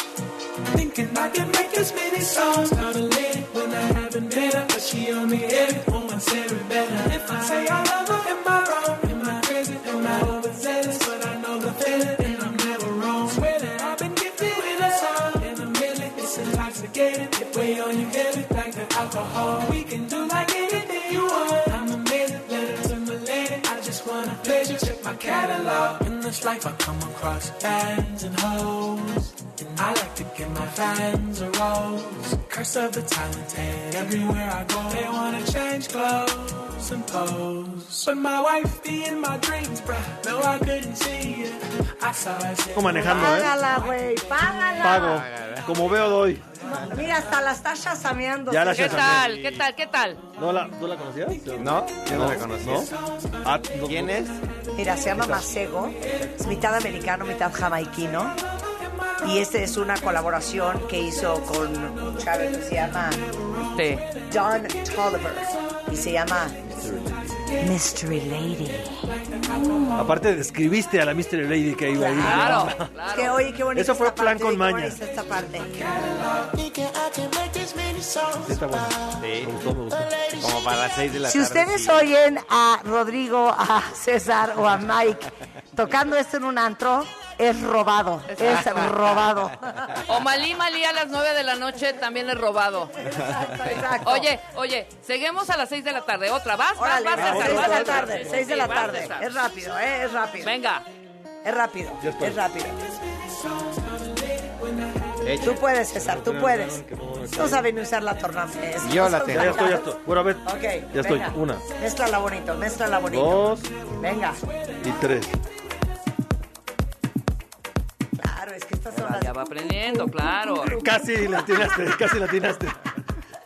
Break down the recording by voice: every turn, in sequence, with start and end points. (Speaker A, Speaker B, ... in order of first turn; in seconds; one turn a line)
Speaker A: 0.7-44.1
Speaker B: 42.7-43.6
Speaker C: 43.0-45.2
Speaker B: 44.8-46.4
Speaker D: 45.0-46.1
Speaker C: 46.8-49.2
Speaker B: 48.5-49.4
Speaker E: 48.7-50.2
Speaker B: 50.4-52.9
Speaker D: 51.6-52.9
Speaker B: 53.4-54.2
Speaker D: 53.9-54.4
Speaker C: 54.7-58.4
Speaker B: 55.1-55.5
Speaker C: 59.2-63.2
Speaker E: 63.7-64.1
Speaker C: 64.3-66.6
Speaker B: 66.8-67.1
Speaker C: 67.6-69.0
Speaker A: 69.3-69.8
Speaker B: 69.9-72.9
Speaker C: 71.9-76.0
Speaker E: 72.2-73.5
Speaker B: 73.7-75.0
Speaker A: 75.9-76.5
Speaker B: 78.4-80.2
Speaker D: 79.2-79.5
Speaker D: 80.3-82.0
Speaker C: 81.2-89.9
Speaker E: 88.3-88.9
Speaker E: 90.1-92.9
Speaker C: 93.1-94.3
Speaker E: 94.0-99.3
Speaker C: 96.8-100.5
Speaker B: 97.2-98.4
Speaker E: 100.4-100.8
Speaker C: 101.4-102.8
Speaker B: 102.0-102.4
Speaker A: 103.1-105.1
Speaker D: 105.2-105.6
Speaker C: 105.4-109.9
Speaker B: 105.9-107.7
Speaker D: 108.8-109.7
Speaker B: 109.3-111.6
Speaker C: 110.4-114.4
Speaker B: 113.1-113.7
Speaker B: 114.8-115.3
Speaker C: 118.2-121.7
Speaker E: 119.0-120.8
Speaker B: 120.7-122.8